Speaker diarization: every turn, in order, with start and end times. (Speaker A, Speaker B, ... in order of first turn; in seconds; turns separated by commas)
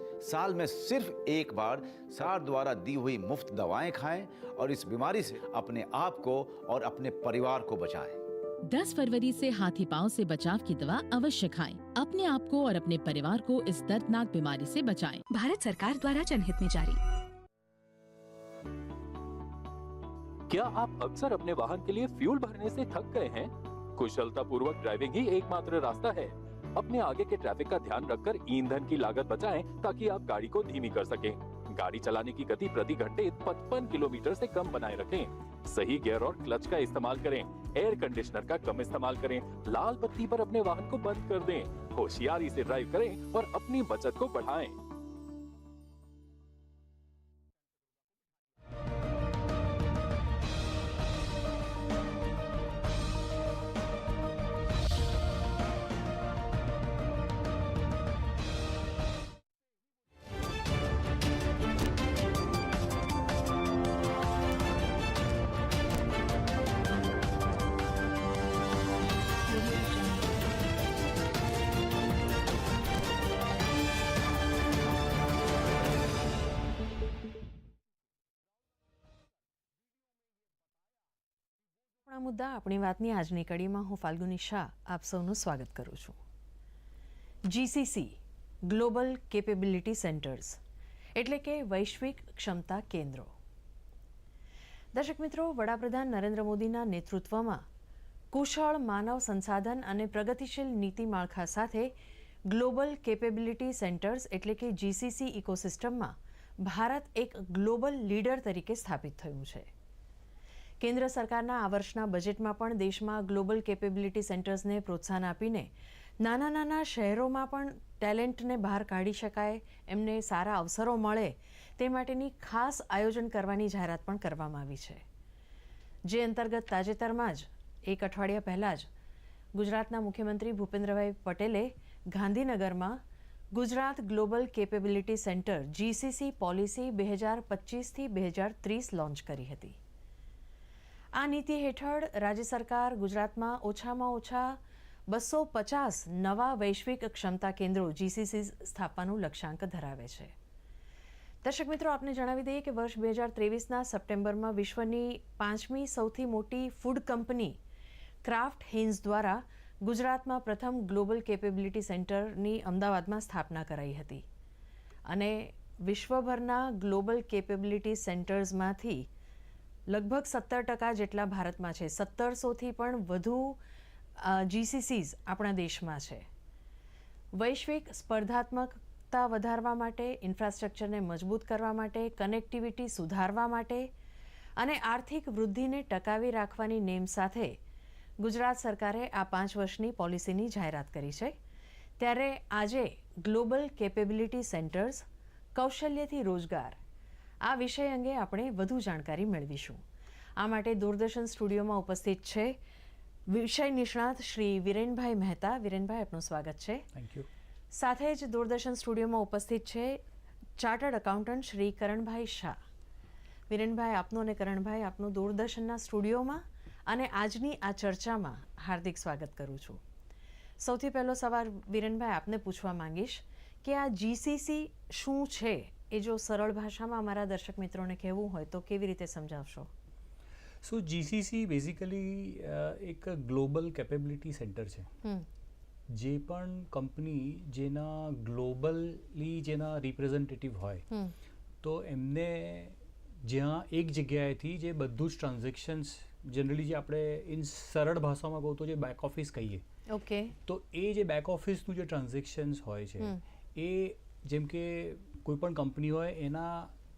Speaker A: 0.2-8.2, Speaker B: 8.6-15.2, Speaker C: 15.3-17.0, Speaker D: 20.5-44.8, Speaker C: 69.5-70.9, Speaker E: 82.1-86.2, Speaker E: 87.5-90.6, Speaker E: 91.2-93.3, Speaker E: 94.9-97.6, Speaker E: 98.3-101.9, Speaker E: 102.5-109.7, Speaker E: 110.8-125.0, Speaker E: 126.0-128.9, Speaker E: 129.5-133.0, Speaker E: 133.5-139.8, Speaker E: 141.2-150.3, Speaker E: 151.4-157.6, Speaker E: 158.2-164.2, Speaker E: 165.1-169.1, Speaker E: 169.9-173.6, Speaker E: 174.2-176.2, Speaker E: 177.3-183.9, Speaker E: 184.6-187.6, Speaker E: 188.2-191.3, Speaker E: 192.0-195.0, Speaker E: 195.6-196.8, Speaker E: 197.4-199.8, Speaker E: 200.4-202.6, Speaker E: 203.3-206.8, Speaker F: 206.9-207.3, Speaker E: 207.8-210.0, Speaker E: 210.6-212.6, Speaker E: 213.5-219.8, Speaker E: 220.6-229.7, Speaker F: 230.6-234.9, Speaker F: 235.9-240.8, Speaker F: 241.6-249.6, Speaker E: 249.9-250.3, Speaker F: 250.5-256.7